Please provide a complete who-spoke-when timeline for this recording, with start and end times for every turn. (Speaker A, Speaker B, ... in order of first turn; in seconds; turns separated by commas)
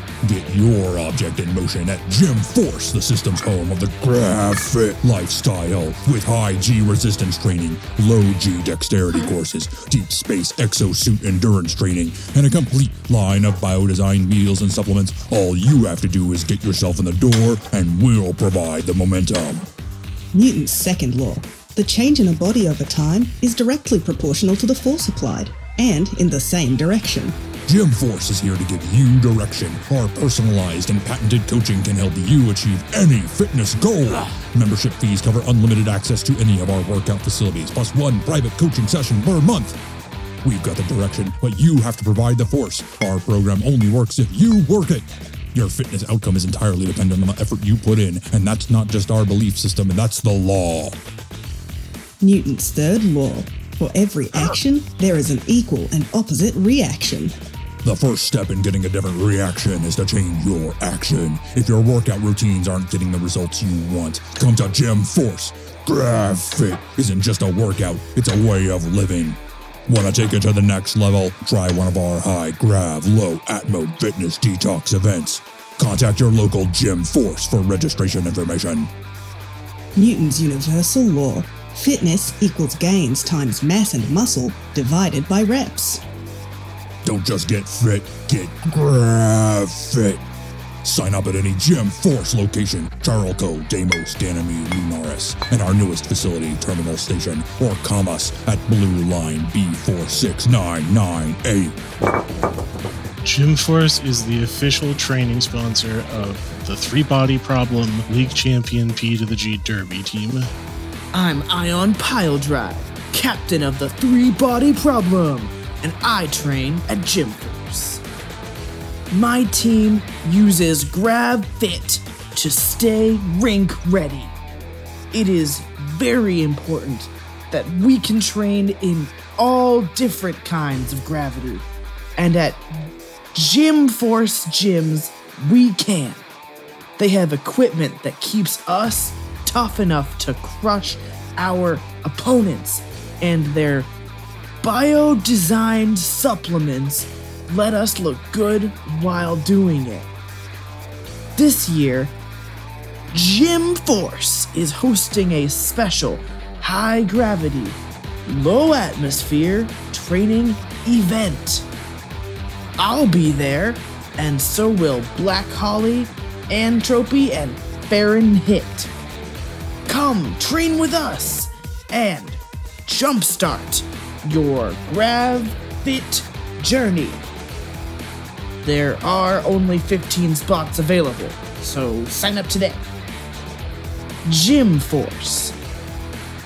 Speaker A: 0.2-19.7, Speaker B: 20.3-27.4, Speaker A: 27.7-39.8, Speaker A: 40.4-51.0, Speaker B: 52.2-57.3, Speaker A: 57.8-78.9, Speaker B: 80.0-86.0, Speaker A: 87.0-90.2, Speaker A: 90.8-101.8, Speaker C: 103.2-110.5, Speaker D: 111.1-118.0, Speaker D: 119.1-124.4, Speaker D: 125.1-131.7, Speaker D: 132.2-132.6, Speaker D: 133.3-136.2, Speaker D: 137.0-143.9, Speaker D: 144.6-150.1, Speaker D: 151.4-152.2, Speaker D: 153.1-161.7, Speaker D: 162.8-168.9, Speaker D: 169.9-177.2, Speaker D: 178.6-182.8, Speaker D: 184.2-185.6